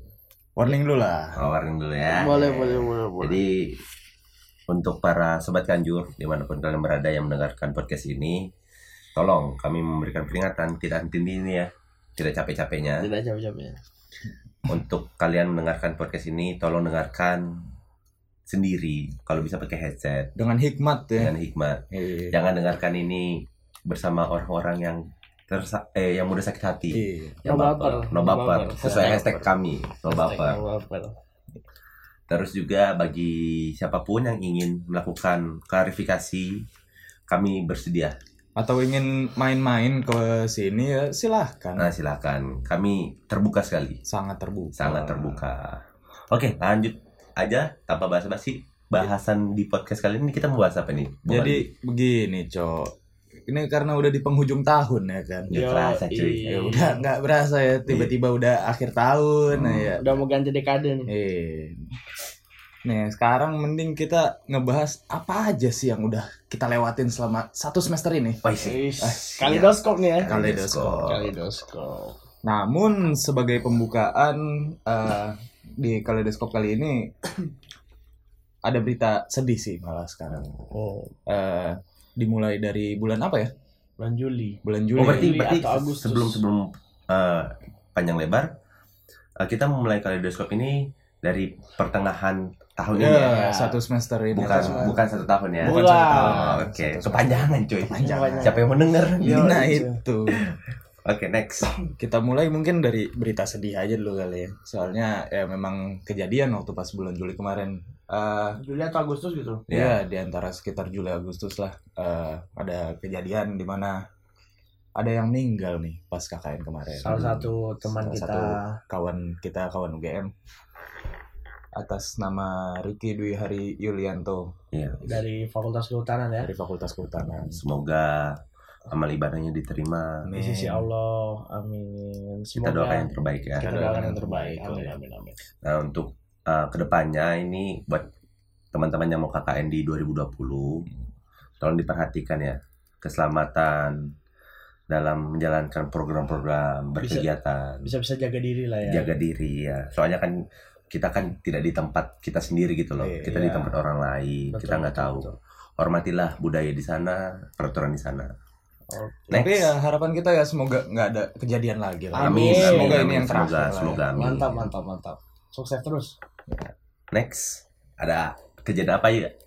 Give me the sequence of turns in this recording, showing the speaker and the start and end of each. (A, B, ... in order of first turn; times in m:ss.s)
0:00.6-0:01.4 A
0:01.4-0:03.8 B
0:02.1-0:03.4 C
0:04.7-0:08.5 B
0:09.2-0:13.1 B
0:13.0-0:13.8 C
0:14.7-0:17.4 B
0:18.5-0:20.3 B
0:20.4-0:21.3 A
0:21.2-0:30.6 B
0:21.9-0:22.4 A
0:26.9-0:27.4 A
0:27.5-0:29.2 C
0:28.8-0:29.5 A
0:30.1-0:31.1 C
0:32.3-0:36.6 B
0:37.3-0:38.2 B
0:38.6-0:41.9 A
0:41.8-0:44.0 B
0:44.1-0:45.4 A
0:44.8-0:45.8 B
0:46.3-0:51.6 B
0:51.3-0:52.9 A
0:53.5-0:55.5 A
0:55.5-0:56.5 B
0:55.5-0:57.0 C
0:56.5-1:00.2 A
0:57.9-0:58.1 B
0:59.5-1:00.0 B
1:00.0-1:01.1 C
1:01.1-1:01.9 A
1:02.8-1:08.4 A
1:08.4-1:11.2 B
1:08.6-1:10.3 C
1:09.0-1:09.3 A
1:10.3-1:11.2 A
1:11.1-1:12.1 C
1:12.4-1:17.1 A
1:18.6-1:20.5 A
1:20.7-1:21.1 C
1:21.3-1:23.5 A
1:24.0-1:26.4 C
1:24.6-1:25.4 A
1:25.0-1:28.5 B
1:29.4-1:33.3 B
1:32.9-1:34.9 A
1:33.2-1:33.8 C
1:34.3-1:35.0 C
1:34.4-1:39.6 B
1:35.6-1:38.6 A
1:35.6-1:36.5 C
1:38.0-1:40.0 C
1:39.2-1:40.4 A
1:40.3-1:41.7 B
1:42.0-1:48.6 A
1:48.6-1:49.6 C
1:49.7-1:50.0 B
1:49.7-1:54.0 A
1:55.0-2:00.3 A
1:57.0-1:58.8 C
2:01.8-2:04.5 A
2:04.7-2:05.0 B
2:05.0-2:06.5 C
2:06.4-2:07.6 A
2:07.2-2:08.3 B
2:08.9-2:10.3 B
2:10.2-2:10.9 A
2:10.4-2:15.4 C
2:12.6-2:13.8 B
2:13.6-2:14.9 A
2:15.6-2:18.1 B
2:18.7-2:20.8 B
2:21.6-2:24.1 B
2:24.9-2:27.9 B
2:27.0-2:27.3 C
2:27.8-2:29.1 C
2:28.9-2:30.4 B
2:30.9-2:38.3 B
2:33.0-2:33.7 A
2:34.5-2:35.3 C
2:38.9-2:39.4 C
2:39.3-2:39.7 B
2:39.3-2:44.0 A
2:42.1-2:43.0 C
2:42.2-2:44.7 B
2:44.1-2:46.1 C
2:47.1-2:49.3 B